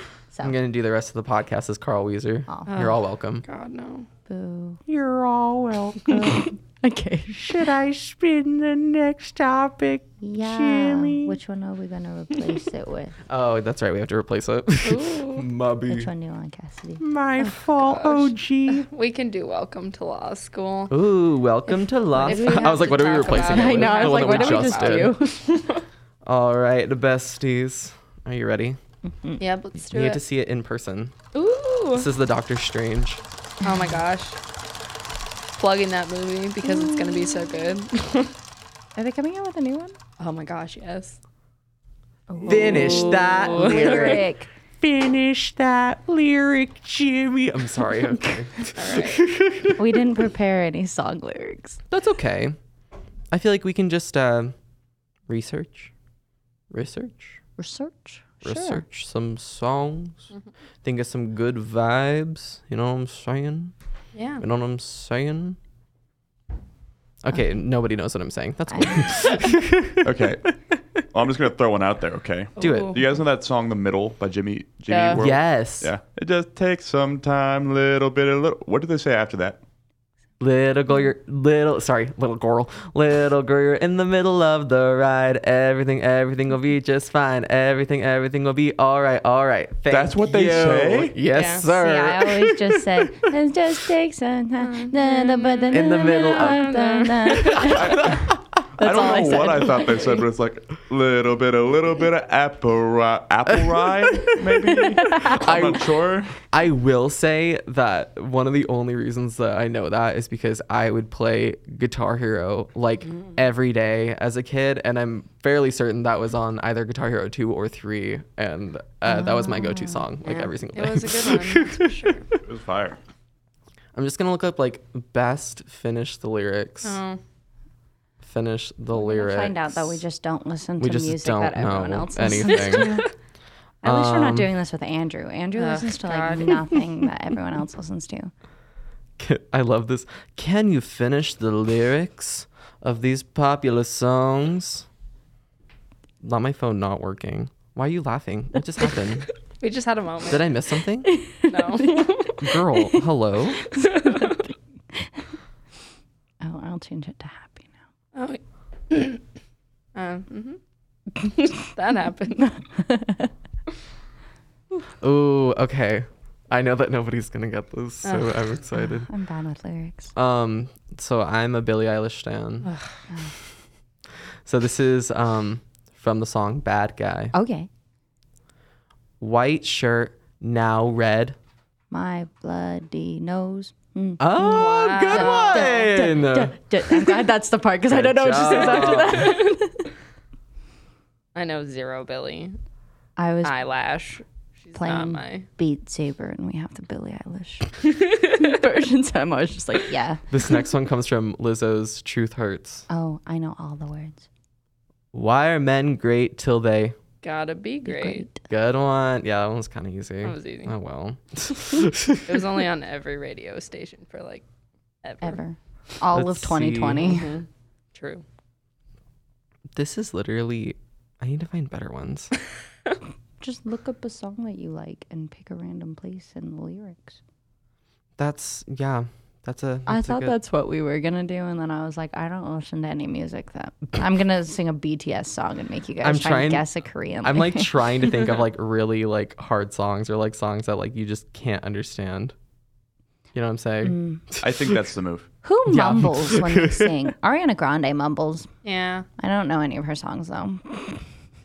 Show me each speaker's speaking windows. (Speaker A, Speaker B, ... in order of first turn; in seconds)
Speaker A: 0.4-3.4, 4.9-6.5, 7.3-11.4, 13.3-16.1, 17.0-18.9, 20.9-25.2, 26.2-28.8, 29.9-31.1, 31.9-33.2, 42.4-44.3, 44.8-49.8, 51.9-52.5, 53.3-54.5, 55.3-55.9, 56.7-57.4, 58.4-60.3, 60.8-63.7, 64.4-65.6, 67.2-70.3, 72.6-73.0, 75.1-75.9, 80.4-93.3, 95.7-96.7, 97.4-98.4, 103.5-122.3, 123.9-127.0, 128.2-130.0, 130.8-133.0, 133.8-134.5, 139.2-144.8, 146.2-149.3, 150.3-151.2, 152.4-153.7, 165.0-169.1, 170.1-172.7, 174.4-177.3, 179.2-181.4, 184.2-186.6, 187.9-189.4, 200.3-202.8, 205.1-206.9, 208.5-212.5, 216.1-217.2, 219.7-222.3, 228.2-230.3, 236.0-236.7, 237.2-242.3, 243.3-244.8, 245.7-247.1
Speaker B: 2.5-2.7, 4.3-4.8, 6.0-7.5, 10.2-13.1, 15.9-17.0, 22.0-25.7, 36.6-37.8, 39.0-39.9, 42.3-44.5, 49.8-51.8, 57.6-58.8, 68.7-69.2, 91.7-98.2, 98.8-100.1, 105.0-105.3, 119.0-120.3, 128.9-133.1, 133.8-138.3, 151.1-152.3, 156.4-157.7, 162.7-163.3, 168.7-170.1, 177.3-177.7, 181.9-189.9, 193.2-193.5, 194.8-197.7, 198.3-200.2, 202.9-204.2, 207.9-208.4, 215.2-217.3, 223.4-227.2, 229.8-237.7, 243.8-244.2, 245.4-248.5, 249.2-251.0
Speaker C: 2.7-4.1, 14.8-15.4, 17.6-21.0, 22.2-25.8, 29.4-30.2, 31.3-32.1, 33.6-34.4, 35.5-38.3, 40.2-41.2, 42.5-44.2, 48.7-49.3, 64.1-64.4, 72.6-73.0, 74.9-75.2, 91.3-91.7, 94.6-97.9, 120.7-122.3, 126.8-127.2, 132.5-133.1, 135.6-136.8, 149.6-150.5, 151.4-152.4, 153.7-154.4, 158.1-159.2, 159.9-160.6, 161.2-162.6, 168.0-168.4, 172.6-172.9, 184.4-185.9, 188.5-189.5, 191.3-192.6, 193.4-195.4, 197.9-198.6, 207.2-208.3, 210.2-210.7, 212.2-214.4, 215.0-215.4, 217.0-218.2, 248.6-249.1
Speaker D: 70.0-70.5, 71.1-79.6, 89.9-91.1, 97.7-106.4, 122.4-123.0, 244.4-245.3